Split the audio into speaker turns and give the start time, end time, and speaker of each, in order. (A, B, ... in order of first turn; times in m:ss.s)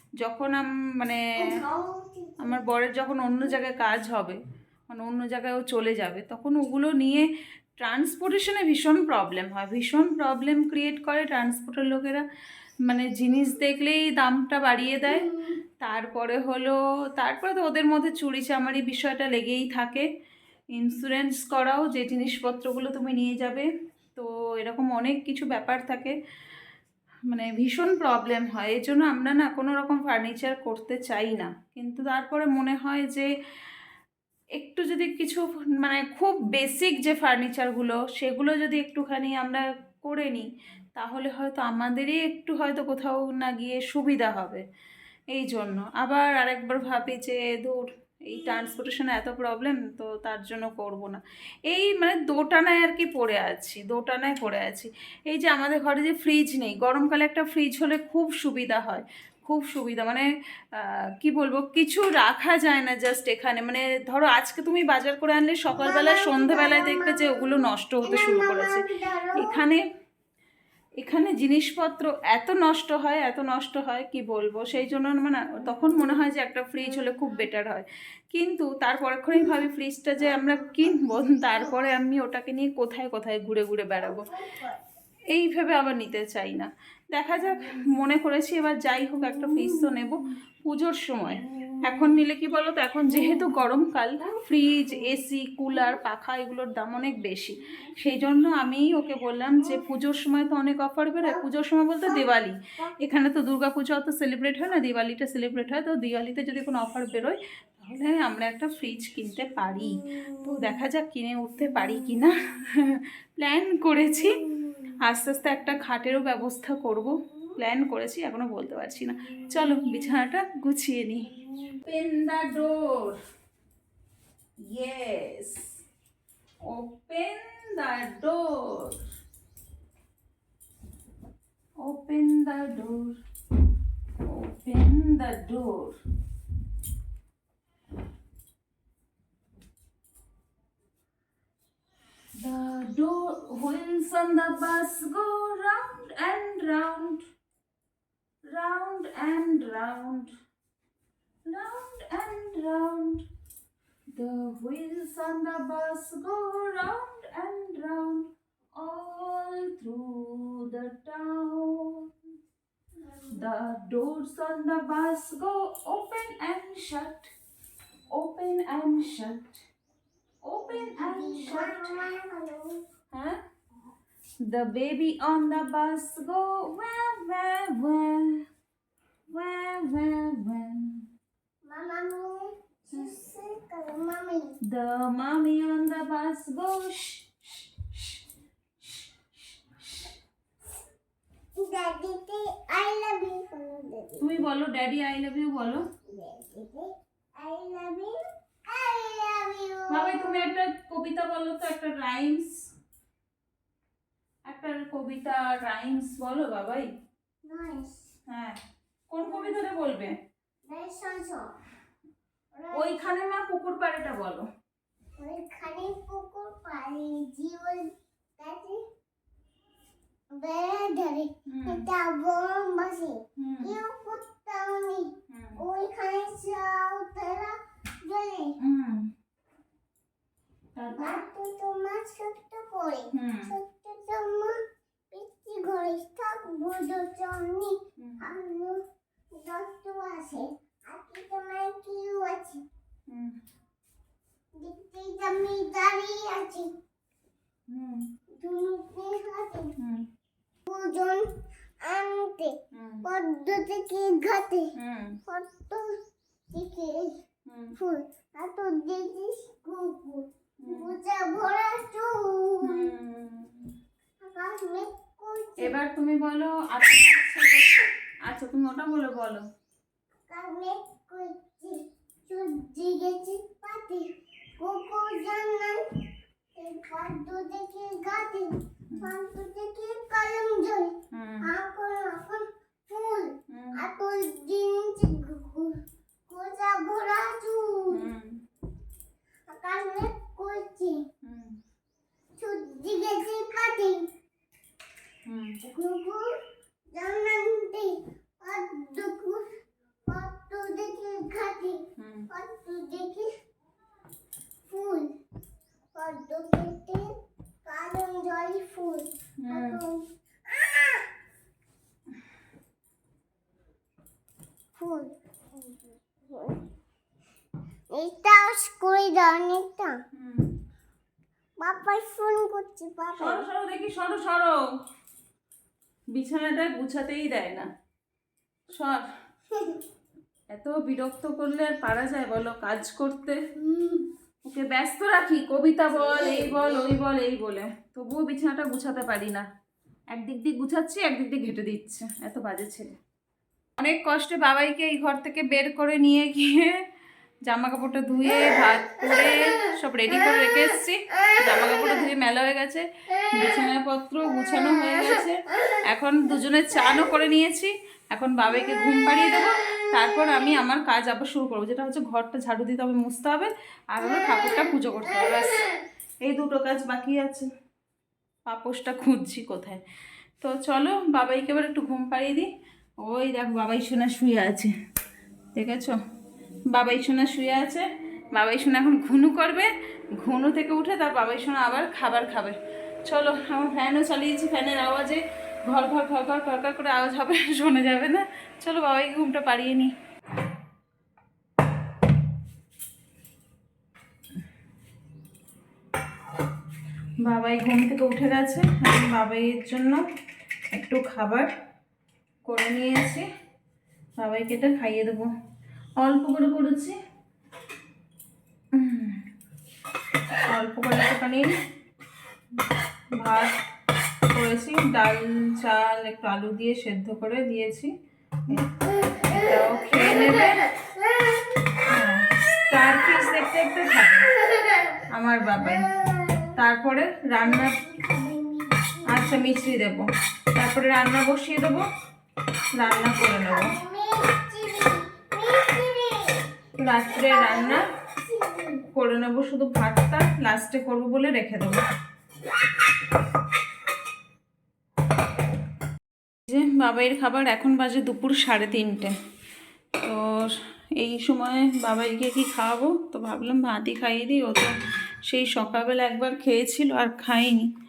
0:00.2-0:01.4 A
0:01.4-0:02.6 B
0:02.4-0:07.3 A
0:07.8-0:12.2 A
0:12.8-0:15.2 A
0:15.1-0:15.6 B
0:15.8-0:20.1 A
0:20.7-0:26.1 A
0:27.3-0:33.3 A
0:34.6-0:44.6 A
0:45.3-1:08.8 A
1:05.8-1:09.6 B
1:09.4-1:09.8 A
1:11.0-1:24.3 A
1:24.0-1:24.8 B
1:25.3-1:54.4 A
1:55.0-2:03.2 A
2:04.7-2:05.8 A
2:06.6-2:09.0 A
2:11.8-2:13.2 A
2:14.2-2:16.0 A
2:22.4-2:27.2 A
2:28.5-2:30.3 A
2:31.5-2:33.2 A
2:34.1-2:42.1 A
2:43.0-2:43.4 B
2:43.3-2:47.3 A
2:48.1-2:49.6 A
2:50.4-2:52.0 A
2:50.7-2:52.8 B
2:53.1-2:53.4 A
2:54.5-2:58.4 A
2:59.3-3:01.0 A
3:01.6-3:04.6 B
3:04.7-3:08.2 A
3:08.8-3:10.2 A
3:11.6-3:14.4 B
3:14.2-3:15.8 A
3:16.1-3:20.5 B
3:19.9-3:22.5 A
3:24.5-3:26.9 A
3:27.4-3:28.1 B
3:28.3-3:28.6 A
3:29.1-3:30.2 A
3:29.2-3:29.6 B
3:30.7-3:31.5 B
3:32.6-3:33.0 B
3:32.7-3:34.5 A
3:35.2-3:38.8 B
3:40.3-3:48.5 B
3:41.5-3:41.8 A
3:43.4-3:43.8 A
3:45.3-3:45.6 A
3:48.6-3:49.1 A
3:50.8-3:51.2 A
3:50.9-3:54.6 B
3:53.1-3:53.5 A
3:55.1-3:58.8 B
3:59.3-4:02.6 B
4:03.1-4:03.4 A
4:04.6-4:06.7 B
4:07.7-4:08.1 A
4:08.3-4:09.7 B
4:09.8-4:10.1 A
4:10.7-4:11.3 B
4:11.8-4:14.7 B
4:12.7-4:13.1 A
4:14.8-4:15.2 A
4:15.3-4:16.0 B
4:16.5-4:17.2 B
4:17.5-4:17.8 A
4:17.8-4:22.9 B
4:20.6-4:20.9 A
4:22.6-4:23.7 A
4:24.2-4:25.8 B
4:25.6-4:29.4 A
4:30.3-4:35.8 B
4:36.5-4:48.0 B
4:41.1-4:41.5 A
4:43.5-4:43.8 A
4:47.9-4:48.4 A
4:49.5-4:51.0 B
4:51.2-4:51.6 A
4:52.4-4:54.0 B
4:55.2-4:55.6 A
4:55.6-4:56.3 B
4:56.9-4:59.4 B
5:00.1-5:03.3 B
5:02.0-5:02.3 A
5:04.6-5:05.1 B
5:05.9-5:07.1 B
5:07.6-5:11.1 B
5:09.4-5:09.8 A
5:14.8-5:16.6 B
5:17.9-5:20.0 B
5:20.1-5:20.5 A
5:21.6-5:23.5 B
5:23.2-5:24.6 A
5:26.1-5:27.7 A
5:28.7-5:29.0 A
5:29.5-5:29.8 B
5:30.5-5:33.4 A
5:33.6-5:34.1 B
5:34.4-5:39.4 A
5:36.0-5:37.0 B
5:40.1-5:42.9 A
5:43.8-5:46.8 A
5:47.5-6:05.6 A
6:06.2-6:07.5 A
6:08.4-6:09.8 A
6:10.4-6:12.5 A
6:13.0-6:14.7 A
6:15.5-6:16.0 A
6:16.7-6:29.9 A
6:37.2-6:40.0 A
6:40.7-6:41.5 A
6:42.4-6:43.2 A
6:44.2-6:45.3 A
6:46.0-6:47.0 A
6:48.7-6:49.2 A
6:50.5-6:51.5 A
6:53.2-6:53.5 A
6:54.3-6:57.9 A
6:58.7-7:01.6 B
6:59.2-7:00.6 A
7:01.9-7:04.2 A
7:04.4-7:05.0 B
7:05.1-7:05.9 A
7:05.6-7:06.5 B
7:06.6-7:07.8 A
7:07.4-7:09.7 B
7:09.1-7:11.8 A
7:12.7-7:13.7 A
7:12.8-7:16.5 B
7:16.8-7:17.8 A
7:17.2-7:18.9 B
7:18.9-7:21.8 A
7:26.5-7:29.1 A
7:30.0-7:34.7 A
7:35.3-7:37.7 A